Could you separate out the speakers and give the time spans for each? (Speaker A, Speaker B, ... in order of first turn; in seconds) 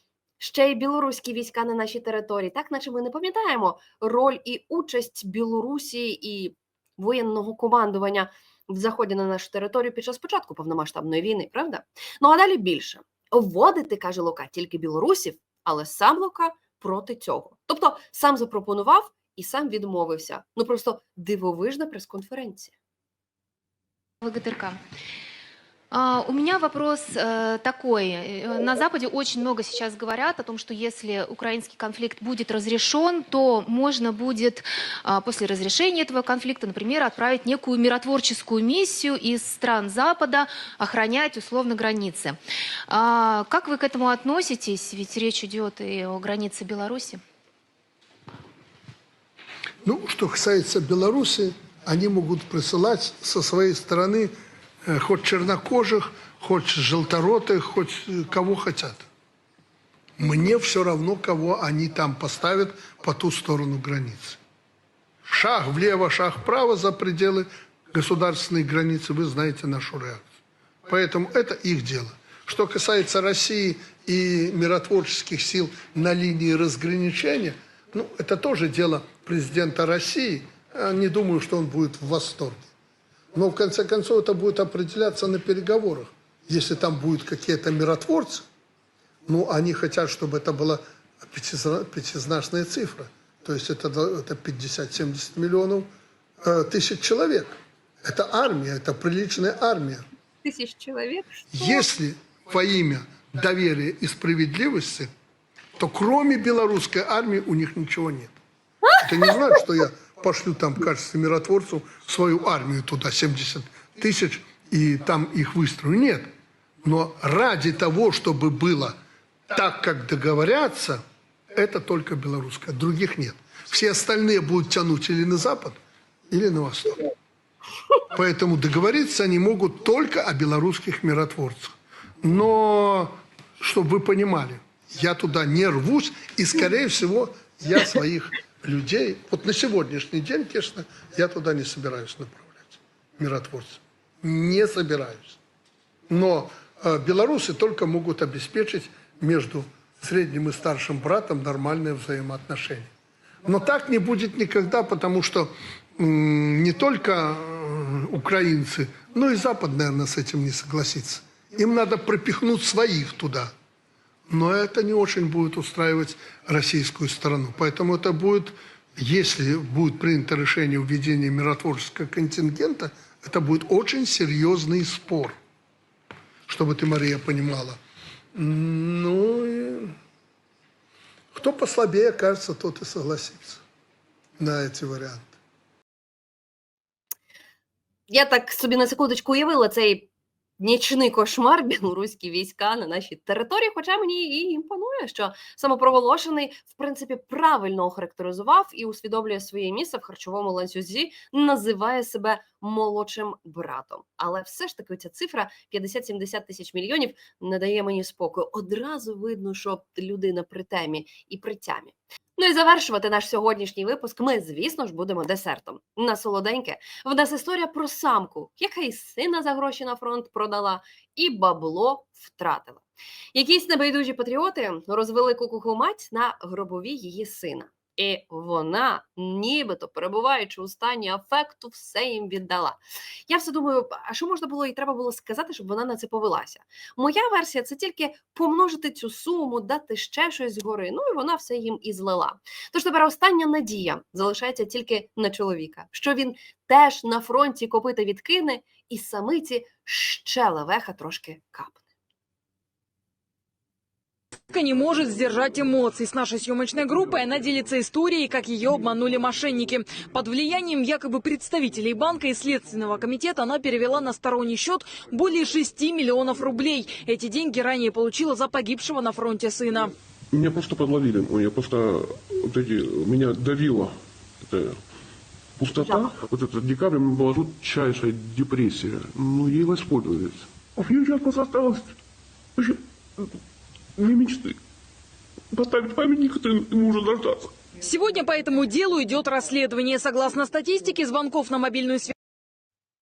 Speaker A: 0.4-22.7, 100.4-101.8, 108.8-109.4, 188.1-190.1, 190.6-251.8, 275.8-276.1
Speaker B: 24.2-24.8, 25.9-47.2
Speaker C: 49.8-54.3, 54.8-59.0, 60.2-64.4, 65.2-70.3, 70.9-82.7, 83.3-88.5, 89.3-95.9, 96.4-100.0, 101.5-105.1, 105.8-108.4, 109.0-116.3, 116.8-119.0, 119.5-127.0, 128.1-145.4, 146.1-152.9, 153.4-163.5, 164.3-175.4, 176.5-177.8, 178.3-179.9, 181.3-183.6, 184.4-185.3
Speaker D: 254.5-269.9, 287.8-292.1
Speaker E: 270.3-274.8, 275.6-281.9, 282.6-283.4, 283.9-284.6, 285.5-287.5